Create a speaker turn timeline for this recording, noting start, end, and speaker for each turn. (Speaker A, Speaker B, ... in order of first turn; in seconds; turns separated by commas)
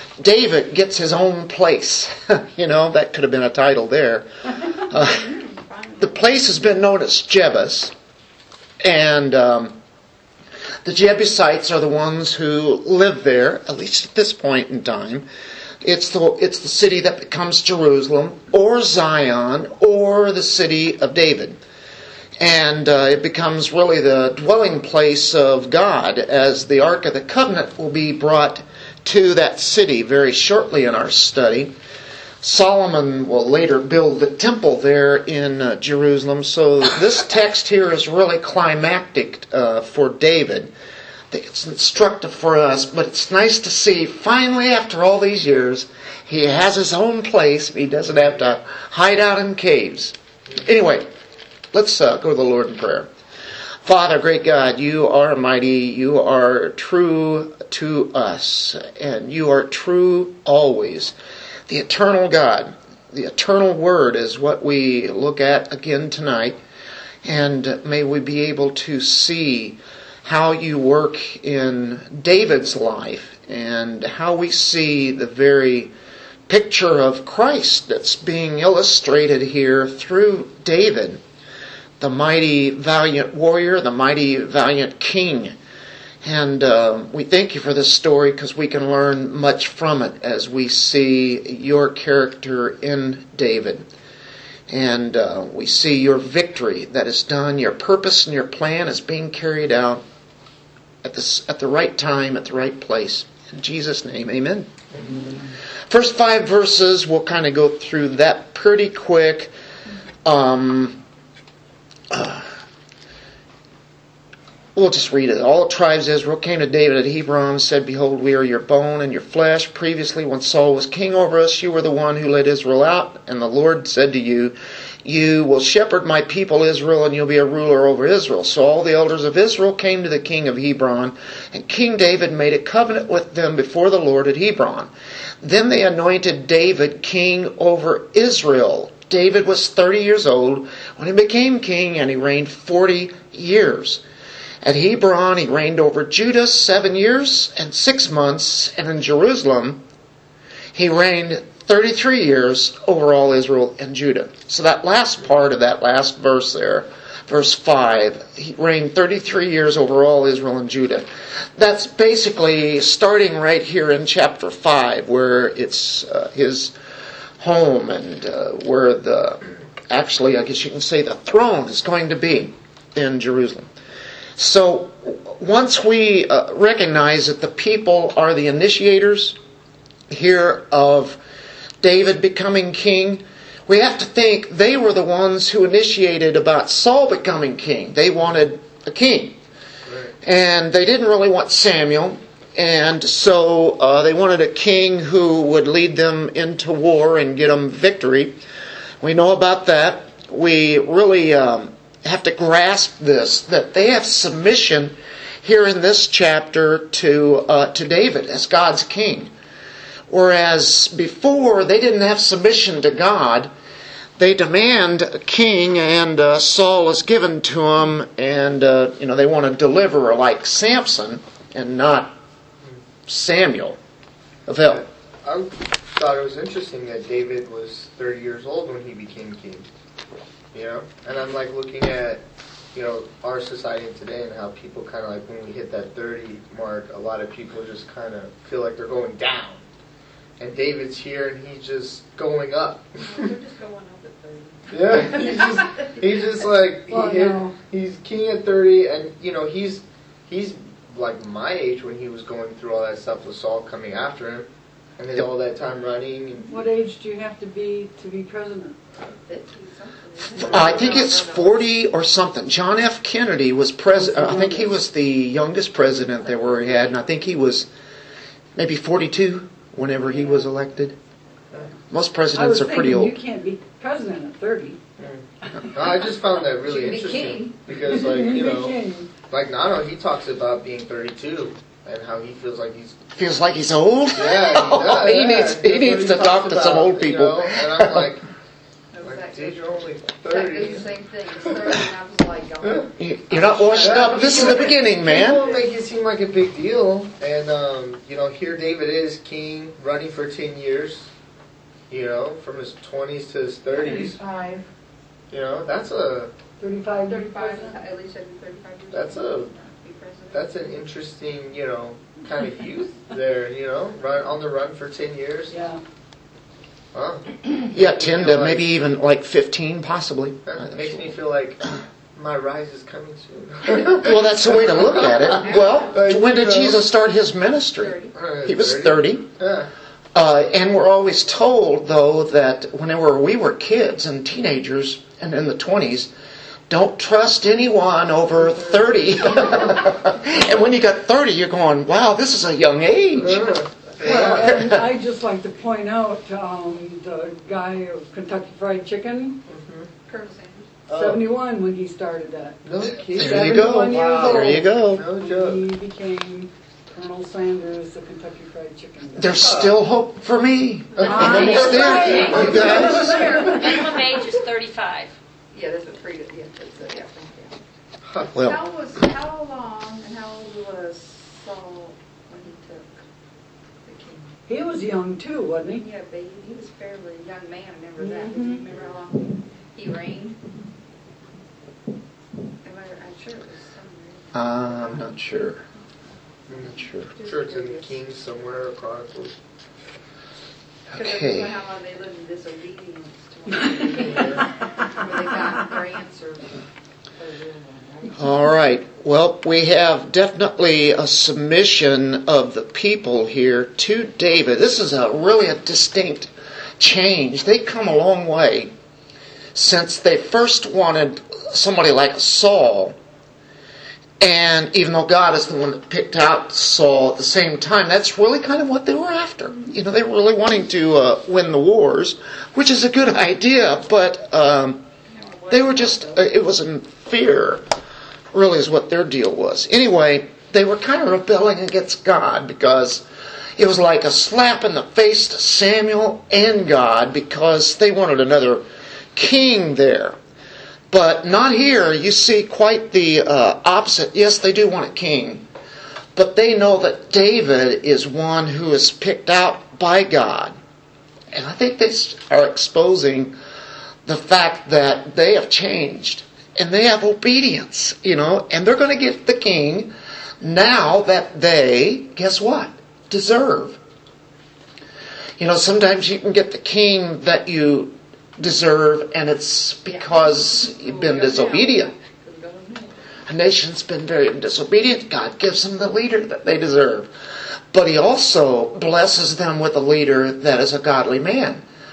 Speaker A: 0.2-5.2, Speaker B: 4.9-6.3, Speaker A: 6.0-7.9, Speaker A: 8.8-9.8, Speaker A: 10.8-15.3, Speaker A: 15.8-21.6, Speaker A: 22.4-31.7, Speaker A: 32.4-40.7, Speaker A: 41.3-51.1, Speaker A: 51.7-53.1, Speaker A: 53.8-61.1, Speaker A: 61.7-66.6, Speaker A: 67.2-75.9, Speaker A: 76.5-81.2, Speaker A: 82.0-85.5, Speaker A: 86.2-93.9, Speaker A: 94.7-100.0, Speaker A: 101.0-109.5, Speaker A: 110.2-111.0, Speaker A: 112.1-112.5, Speaker A: 114.7-144.0, Speaker A: 144.6-149.8, Speaker A: 150.7-166.7, Speaker A: 167.4-173.7, Speaker A: 174.4-179.4, Speaker A: 180.1-181.2, Speaker A: 181.8-189.4, Speaker C: 189.8-190.1, Speaker A: 190.2-198.4, Speaker A: 199.0-209.3, Speaker A: 210.1-213.5, Speaker A: 214.2-222.2, Speaker A: 223.1-223.8, Speaker A: 224.5-224.8, Speaker C: 224.6-229.7, Speaker C: 230.5-239.6, Speaker C: 240.4-243.3, Speaker B: 243.0-246.2, Speaker C: 244.7-256.6, Speaker D: 246.9-247.5, Speaker D: 256.5-258.8, Speaker B: 259.0-261.7, Speaker A: 260.3-267.7, Speaker C: 260.4-261.0, Speaker D: 263.9-264.8, Speaker A: 268.5-270.9, Speaker A: 271.9-273.2, Speaker D: 272.3-274.8, Speaker C: 275.0-278.8, Speaker B: 276.6-277.6, Speaker D: 277.9-279.1, Speaker C: 279.3-283.0, Speaker A: 283.1-288.1, Speaker C: 284.1-288.2, Speaker B: 288.9-295.7, Speaker C: 289.0-290.9, Speaker A: 293.0-295.4, Speaker C: 293.7-301.1, Speaker C: 301.9-304.2, Speaker B: 303.7-304.6, Speaker C: 305.3-306.3, Speaker D: 306.6-307.8, Speaker B: 306.9-310.8, Speaker C: 308.9-309.5, Speaker C: 310.3-315.5, Speaker D: 315.5-315.8, Speaker C: 316.9-318.7, Speaker A: 317.7-321.2, Speaker C: 320.4-326.8, Speaker A: 323.9-329.2, Speaker B: 325.2-326.1, Speaker B: 327.8-328.1, Speaker C: 328.1-329.7, Speaker A: 330.1-336.1, Speaker A: 336.7-344.8, Speaker D: 338.4-339.7, Speaker C: 343.2-344.6, Speaker D: 344.0-349.4, Speaker C: 349.5-349.9, Speaker B: 350.0-350.7, Speaker C: 350.9-351.2, Speaker D: 350.9-359.5, Speaker C: 352.6-355.6, Speaker A: 353.1-355.0, Speaker A: 359.1-363.4, Speaker C: 359.4-359.7, Speaker C: 360.9-362.9, Speaker B: 361.0-363.6, Speaker D: 361.0-363.6, Speaker E: 361.4-365.1, Speaker B: 365.5-367.6, Speaker C: 368.1-368.3, Speaker B: 368.3-373.0, Speaker B: 373.8-374.3, Speaker D: 374.5-375.8, Speaker B: 375.7-380.4, Speaker D: 378.0-378.6, Speaker B: 382.6-385.2, Speaker A: 384.3-385.6, Speaker A: 386.6-387.1, Speaker B: 386.7-388.0, Speaker C: 387.2-389.4, Speaker A: 390.9-391.5, Speaker B: 390.9-396.5, Speaker C: 394.1-394.5, Speaker B: 397.2-398.2, Speaker A: 398.1-408.7, Speaker A: 409.5-413.0, Speaker A: 414.2-424.8, Speaker B: 425.1-426.2, Speaker A: 425.5-427.6, Speaker A: 428.3-433.0, Speaker A: 433.6-440.2, Speaker A: 440.9-445.4, Speaker A: 446.1-450.6, Speaker A: 451.3-453.3, Speaker A: 454.1-463.8, Speaker A: 465.4-471.9, Speaker B: 469.9-473.1, Speaker A: 473.3-477.1, Speaker A: 477.7-481.6